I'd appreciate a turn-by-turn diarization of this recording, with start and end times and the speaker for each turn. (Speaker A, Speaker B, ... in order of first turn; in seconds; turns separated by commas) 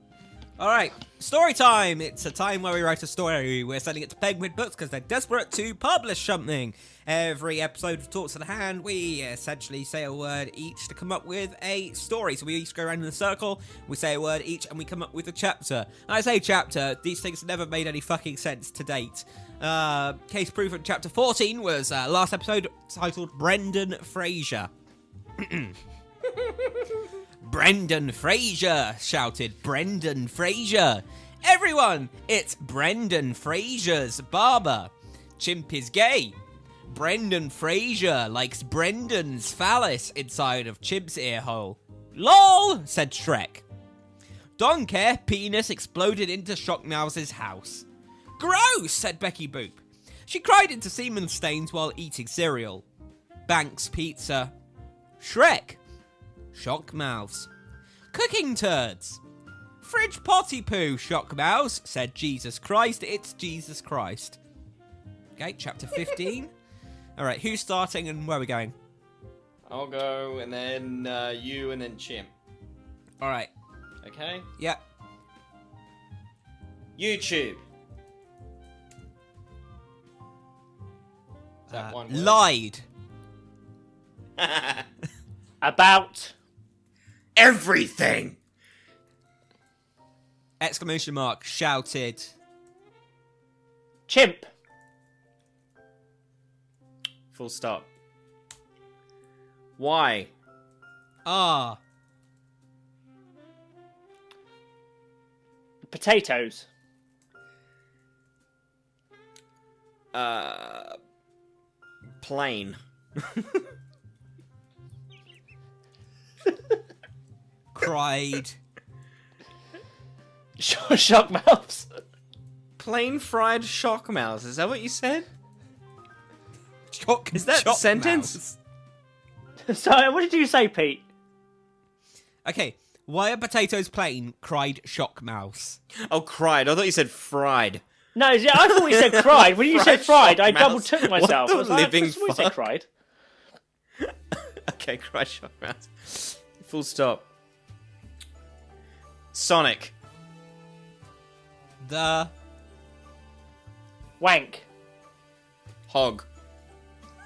Speaker A: 0.6-24.7, Speaker A: 25.4-25.8, Speaker A: 27.4-36.4, Speaker A: 36.9-43.6, Speaker A: 44.6-47.9, Speaker A: 48.4-52.8, Speaker A: 53.5-54.5, Speaker A: 55.2-55.8, Speaker A: 56.5-57.5, Speaker A: 58.1-59.2, Speaker A: 59.8-64.4, Speaker A: 65.4-66.5, Speaker A: 67.2-68.7, Speaker B: 69.7-72.3, Speaker A: 73.2-73.5, Speaker B: 74.0-74.5, Speaker B: 77.0-77.6, Speaker B: 81.7-82.4, Speaker A: 81.7-82.8, Speaker B: 84.4-84.9, Speaker C: 85.6-86.3, Speaker B: 87.4-88.4, Speaker A: 90.6-92.3, Speaker C: 94.1-94.5, Speaker B: 97.3-97.9, Speaker B: 99.8-100.3, Speaker A: 101.2-101.8, Speaker C: 105.9-106.7, Speaker B: 110.1-111.0, Speaker B: 112.2-113.7, Speaker A: 117.7-118.6, Speaker C: 120.6-121.9, Speaker B: 122.8-125.3, Speaker A: 126.9-128.6, Speaker B: 127.3-128.4, Speaker C: 129.7-131.0, Speaker A: 132.4-135.8, Speaker B: 136.1-137.8, Speaker C: 138.2-142.9, Speaker B: 138.6-142.6, Speaker B: 144.0-147.3, Speaker B: 149.3-149.9, Speaker A: 151.8-152.3, Speaker C: 154.2-154.7, Speaker B: 155.9-156.3